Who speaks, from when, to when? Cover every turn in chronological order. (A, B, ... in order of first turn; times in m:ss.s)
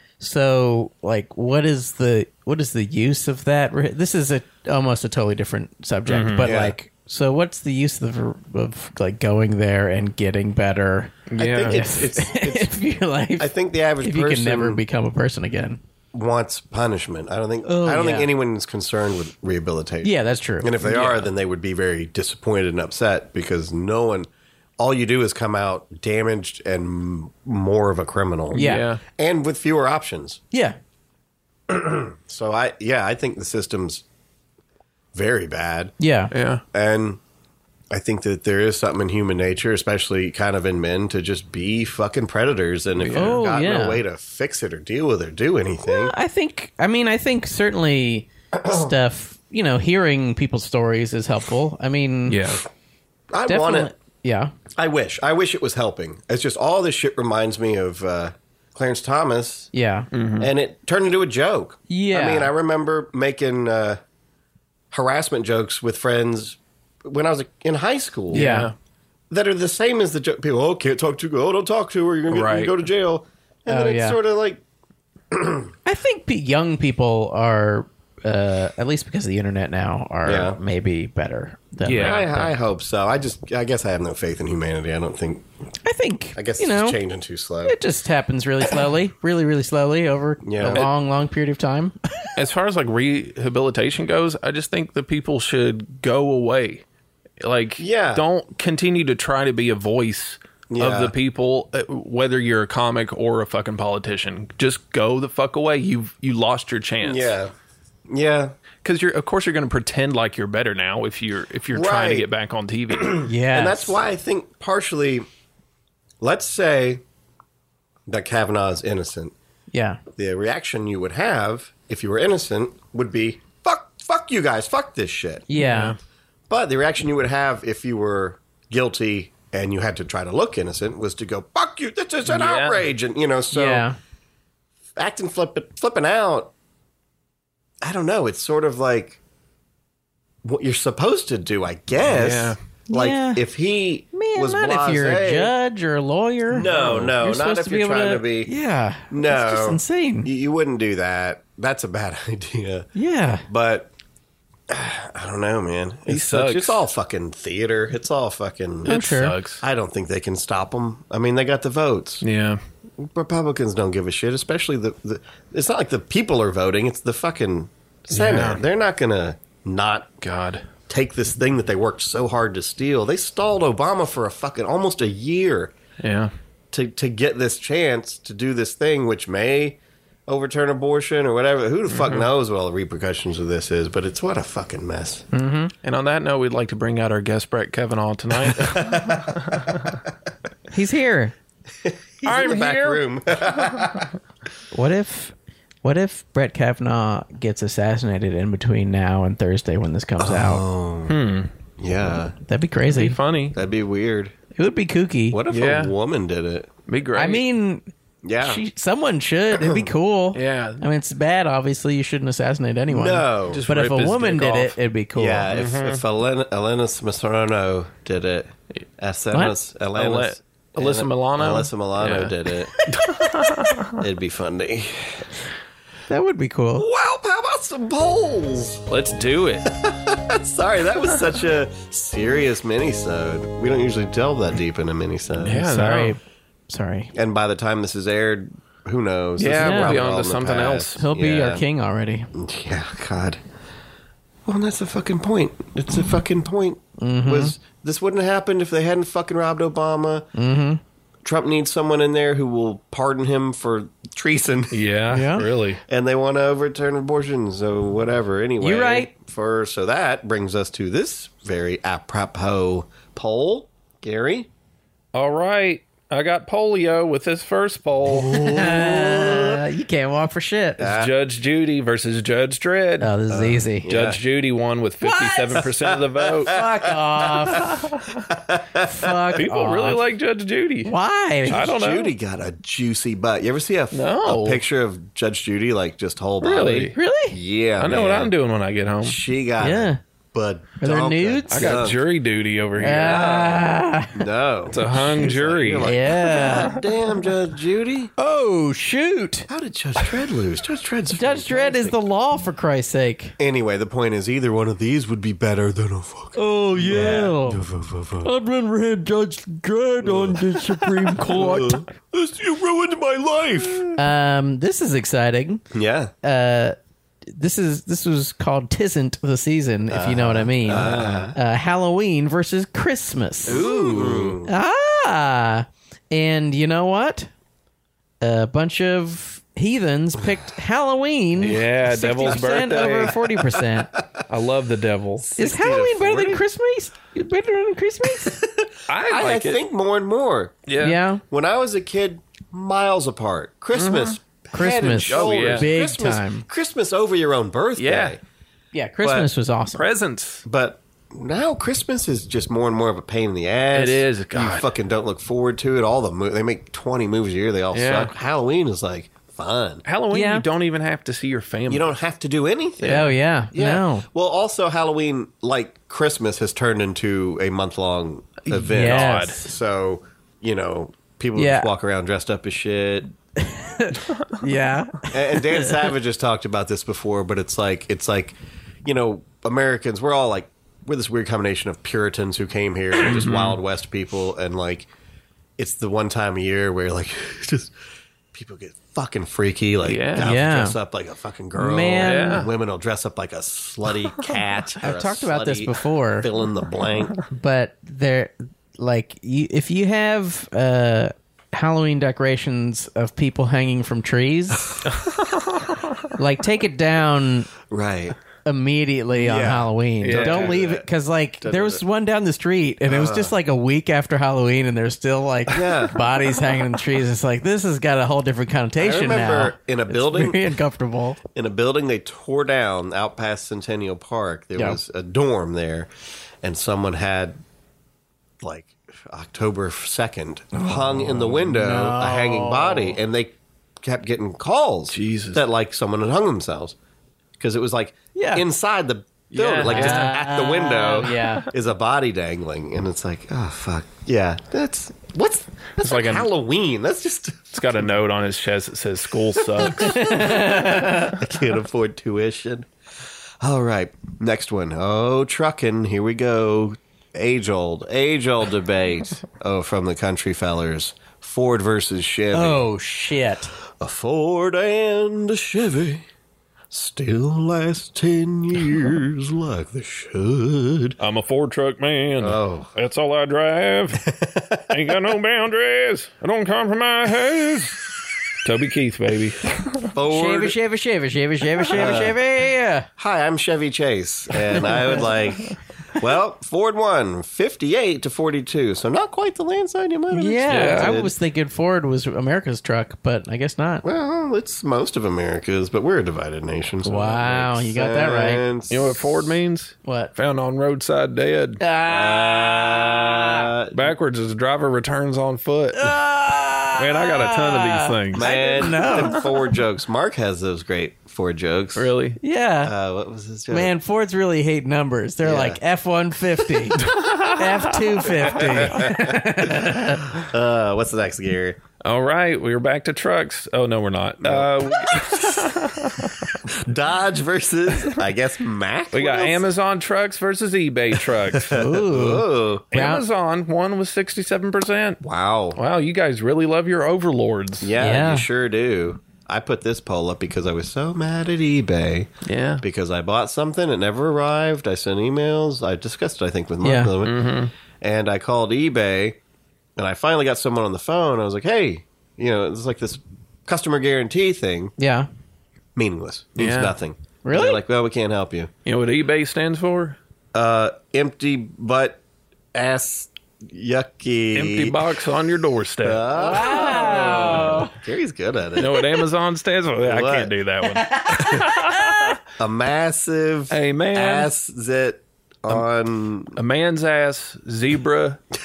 0:00.2-0:15.8 A
0:06.1-0:06.5 B
0:06.4-0:06.8 C
0:11.3-0:11.8 B
0:11.4-0:12.7 C
0:13.4-0:14.8 C
0:16.1-0:30.4 C
0:17.7-0:18.3 A
0:20.0-0:20.7 A
0:20.8-0:21.3 B
0:28.5-0:29.0 B
0:28.5-0:28.9 A
0:31.7-0:34.0 C
0:35.1-0:35.9 C
0:36.0-0:36.3 A
0:36.3-0:36.6 B
0:36.7-0:37.2 C
0:37.9-0:46.1 C
0:43.0-0:43.4 B
0:43.1-0:44.0 A
0:45.8-0:52.4 A
0:48.6-0:48.9 C
0:52.3-0:52.6 B
0:53.3-0:53.9 C
0:53.5-0:54.5 A
0:54.8-0:59.7 C
0:59.7-1:00.1 A
1:00.1-1:00.5 B
1:00.4-1:04.0 C
1:01.9-1:02.5 A
1:04.9-1:08.5 C
1:08.3-1:08.7 B
1:08.3-1:08.7 A
1:09.3-1:14.6 C
1:12.3-1:12.8 B
1:13.7-1:14.2 A
1:15.3-1:15.7 C
1:15.8-1:22.5 A
1:20.2-1:20.6 C
1:21.8-1:22.2 B
1:22.0-1:25.5 C
1:25.8-1:27.0 A
1:26.4-1:27.8 C
1:27.6-1:32.3 A
1:30.4-1:30.9 C
1:32.4-1:36.8 B
1:37.4-1:47.4 B
1:37.8-1:38.2 C
1:40.7-1:41.2 C
1:47.0-1:47.5 C
1:48.1-1:48.5 C
1:48.8-1:53.3 B
1:51.7-1:52.3 C
1:53.0-1:55.3 C
1:53.2-1:54.0 A
1:56.2-1:57.0 C
1:58.1-1:59.3 C
1:59.7-2:00.0 A
2:00.1-2:05.5 C
2:05.5-2:06.0 A
2:05.6-2:06.0 B
2:06.5-2:13.9 C
2:12.3-2:12.8 B
2:13.5-2:14.0 A
2:15.0-2:16.5 C
2:17.8-2:19.2 C
2:20.4-2:25.5 C
2:22.1-2:22.6 B
2:22.9-2:23.4 A
2:24.1-2:30.3 A
2:26.5-2:28.5 C
2:26.6-2:27.1 B
2:29.1-2:32.9 C
2:33.0-2:33.5 A
2:33.5-2:33.9 C
2:34.7-2:39.1 C
2:36.1-2:36.9 B
2:38.9-2:39.4 A
2:38.9-2:39.6 B
2:39.6-2:42.2 C
2:42.2-2:42.6 B
2:43.0-2:50.1 C
2:48.1-2:48.6 B
2:50.2-2:50.6 B
2:50.9-2:55.7 C
2:56.0-2:56.3 B
2:56.7-3:05.3 C
3:01.9-3:02.3 B
3:05.3-3:05.7 A
3:05.8-3:10.0 B
3:08.5-3:10.0 C
3:10.7-3:11.3 A
3:11.8-3:14.1 C
3:12.2-3:14.0 B
3:14.7-3:20.6 A
3:20.2-3:21.2 C
3:21.1-3:21.5 B
3:21.8-3:22.4 C
3:22.4-3:23.2 A
3:22.9-3:23.6 B
3:23.5-3:24.3 C
3:24.6-3:25.4 A
3:25.3-3:26.7 C
3:25.5-3:25.9 B
3:26.9-3:27.4 B
3:27.2-3:27.9 A
3:28.2-3:28.6 C
3:28.4-3:35.5 A
3:29.5-3:29.9 C
3:30.3-3:30.8 B
3:32.9-3:33.6 C
3:33.5-3:34.8 B
3:35.2-3:42.8 C
3:35.5-3:36.0 B
3:40.0-3:42.4 B
3:42.8-3:43.5 A
3:42.9-3:44.0 B
3:43.9-3:45.3 C
3:46.1-3:46.9 A
3:46.8-3:48.8 C
3:48.9-3:49.7 B
3:49.7-3:55.6 C
3:55.4-3:56.2 B
3:55.5-3:57.1 A
3:57.1-4:01.6 C
3:59.4-4:01.0 B
3:59.6-4:00.0 A
4:01.0-4:02.3 A
4:02.3-4:03.4 C
4:04.5-4:10.3 C
4:07.0-4:07.6 A
4:10.4-4:10.8 A
4:11.2-4:14.8 C
4:14.7-4:15.8 B
4:15.1-4:15.5 A
4:15.9-4:24.5 C
4:18.6-4:19.1 A
4:25.1-4:28.4 B
4:28.1-4:29.6 C
4:28.2-4:30.9 A
4:30.8-4:31.1 C
4:30.8-4:33.1 B
4:33.0-4:33.9 A
4:33.3-4:34.2 C
4:33.9-4:36.6 B
4:35.0-4:35.7 A
4:35.7-4:39.2 C
4:36.5-4:37.9 A
4:37.6-4:38.2 B
4:38.8-4:40.0 A
4:39.4-4:40.9 B
4:40.8-4:41.7 A
4:41.5-4:42.1 B
4:41.5-4:48.3 C
4:43.9-4:44.6 B
4:46.4-4:47.0 B
4:47.0-4:47.4 A
4:47.8-4:49.2 B
4:49.0-4:52.0 C
4:49.6-4:50.0 A
4:50.8-4:51.8 A
4:51.5-4:53.5 B
4:52.8-4:54.2 A
4:52.9-4:58.1 C
4:54.7-4:56.8 B
4:55.8-4:56.8 A
4:58.2-4:59.5 A
4:59.5-5:02.0 C
5:01.1-5:03.4 A
5:03.4-5:08.3 C
5:06.4-5:07.6 A
5:08.2-5:11.9 A
5:10.0-5:14.0 C
5:14.0-5:15.6 A
5:15.7-5:16.1 C
5:16.2-5:16.8 A
5:17.3-5:27.3 A
5:19.9-5:21.4 C
5:20.7-5:21.4 B
5:23.5-5:24.4 B
5:23.5-5:24.5 C
5:28.2-5:33.9 A
5:31.4-5:33.2 B
5:32.3-5:33.6 C
5:34.3-5:35.3 B
5:35.2-5:36.4 C
5:35.4-5:38.4 A
5:38.1-5:40.6 C
5:38.9-5:39.6 B
5:40.7-5:41.0 B
5:40.8-5:41.2 A
5:41.2-5:48.2 C
5:43.8-5:44.2 B
5:44.5-5:46.4 A
5:45.0-5:45.7 B
5:47.8-5:48.2 B
5:48.7-5:49.8 A
5:49.0-5:49.3 C
5:49.8-5:50.4 B
5:50.4-5:59.8 C
5:53.7-5:54.7 B
5:57.7-5:58.1 B
5:59.9-6:01.9 B
6:00.1-6:00.5 A
6:01.7-6:13.1 C
6:02.8-6:03.1 B
6:02.8-6:04.0 A
6:08.5-6:09.4 B
6:08.7-6:09.4 A
6:11.4-6:11.7 A
6:13.4-6:15.9 A
6:15.1-6:24.9 C
6:23.0-6:23.6 B
6:25.6-6:27.7 C
6:28.3-6:37.2 C
6:29.8-6:30.4 B
6:30.2-6:30.8 A
6:31.6-6:32.5 A
6:32.0-6:32.5 B
6:34.8-6:36.3 A
6:37.3-6:44.8 A
6:44.9-6:46.0 B
6:46.2-6:47.5 A
6:47.7-6:48.2 C
6:48.4-7:01.2 A
6:49.1-6:50.9 C
6:50.0-6:50.6 B
6:51.4-6:51.8 C
6:52.9-6:53.4 C
6:55.5-6:56.0 C
6:58.8-7:00.6 C
7:01.3-7:05.9 C
7:06.4-7:07.4 C
7:08.4-7:16.8 C
7:11.4-7:13.0 A
7:14.9-7:15.4 B
7:17.4-7:27.8 C
7:18.2-7:18.5 A
7:19.4-7:20.2 B
7:19.4-7:21.5 A
7:25.8-7:26.3 B
7:27.5-7:30.2 B
7:29.4-7:32.7 C
7:29.7-7:31.2 A
7:33.4-7:42.7 C
7:42.3-7:43.5 A
7:43.7-7:46.0 C
7:46.7-7:51.0 C
7:51.0-7:59.9 B
7:52.2-7:52.7 C
7:54.0-7:54.8 C
7:59.9-8:00.6 C
8:00.1-8:02.9 A
8:01.7-8:02.0 B
8:01.7-8:02.2 C
8:03.0-8:11.1 C
8:04.6-8:05.0 A
8:10.1-8:13.8 A
8:10.5-8:11.0 B
8:13.8-8:19.3 C
8:16.8-8:18.4 A
8:18.7-8:21.6 B
8:19.8-8:20.1 A
8:21.6-8:23.5 A
8:21.9-8:23.9 C
8:23.7-8:26.0 B
8:25.8-8:29.3 A
8:26.8-8:28.3 B
8:28.1-8:31.9 C
8:28.8-8:29.2 B
8:31.8-8:32.2 B
8:32.2-8:32.7 A
8:32.6-8:33.7 C
8:33.5-8:40.1 A
8:35.2-8:35.6 C
8:36.8-8:37.7 B
8:38.3-8:41.6 C
8:41.8-8:46.4 B
8:44.2-8:45.8 C
8:46.4-8:49.5 C
8:48.9-8:51.6 B
8:51.3-8:52.7 C
8:51.5-8:53.0 A
8:52.7-8:55.0 B
8:55.0-8:55.6 C
8:55.6-8:57.7 B
8:57.6-9:02.1 C
8:57.8-8:58.3 A
9:02.2-9:02.6 B
9:02.6-9:09.2 C
9:06.6-9:06.9 A
9:07.0-9:07.5 B
9:09.8-9:14.7 C
9:14.8-9:15.1 A
9:15.8-9:18.5 C
9:16.4-9:16.8 B
9:17.2-9:17.6 A
9:18.7-9:20.0 B
9:20.3-9:22.0 C
9:22.5-9:24.9 C
9:24.3-9:27.6 B
9:25.8-9:29.0 C
9:26.1-9:27.7 A
9:28.6-9:32.2 B
9:29.8-9:30.3 C
9:30.7-9:32.2 A
9:32.4-9:36.4 C
9:33.5-9:34.3 B
9:36.4-9:38.2 B